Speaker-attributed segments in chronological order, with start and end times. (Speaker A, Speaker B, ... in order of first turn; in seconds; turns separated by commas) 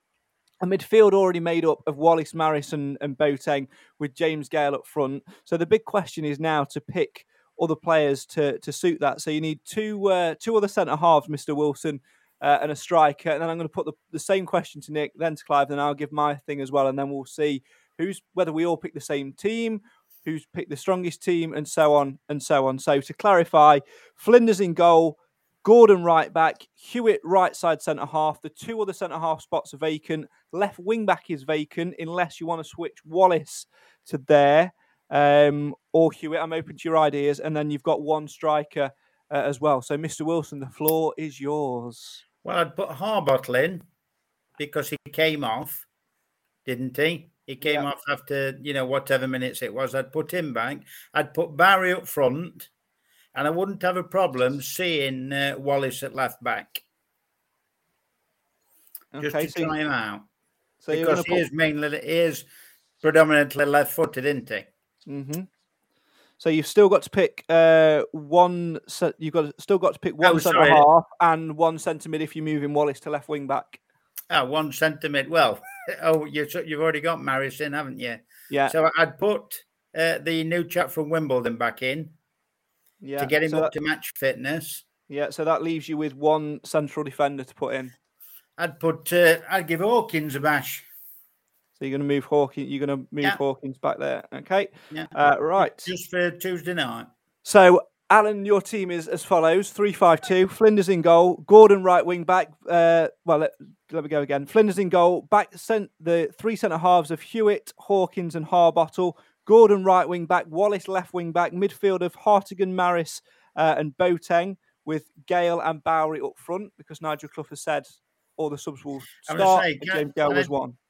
Speaker A: 0.6-42.2, Speaker B: 42.4-43.8, Speaker B: 44.6-45.8, Speaker B: 46.6-52.7, Speaker A: 47.6-47.9, Speaker B: 53.3-56.8, Speaker A: 59.1-59.7, Speaker B: 59.2-60.2, Speaker A: 60.8-61.5, Speaker B: 60.9-62.5, Speaker B: 63.0-64.7, Speaker A: 65.1-65.5, Speaker A: 66.4-73.8, Speaker B: 70.2-70.8, Speaker B: 74.3-82.1, Speaker A: 83.0-83.7, Speaker B: 83.2-84.8, Speaker A: 85.1-87.9, Speaker B: 88.6-90.8, Speaker A: 91.8-95.9, Speaker B: 94.9-97.1, Speaker A: 97.4-120.8, Speaker B: 119.2-120.5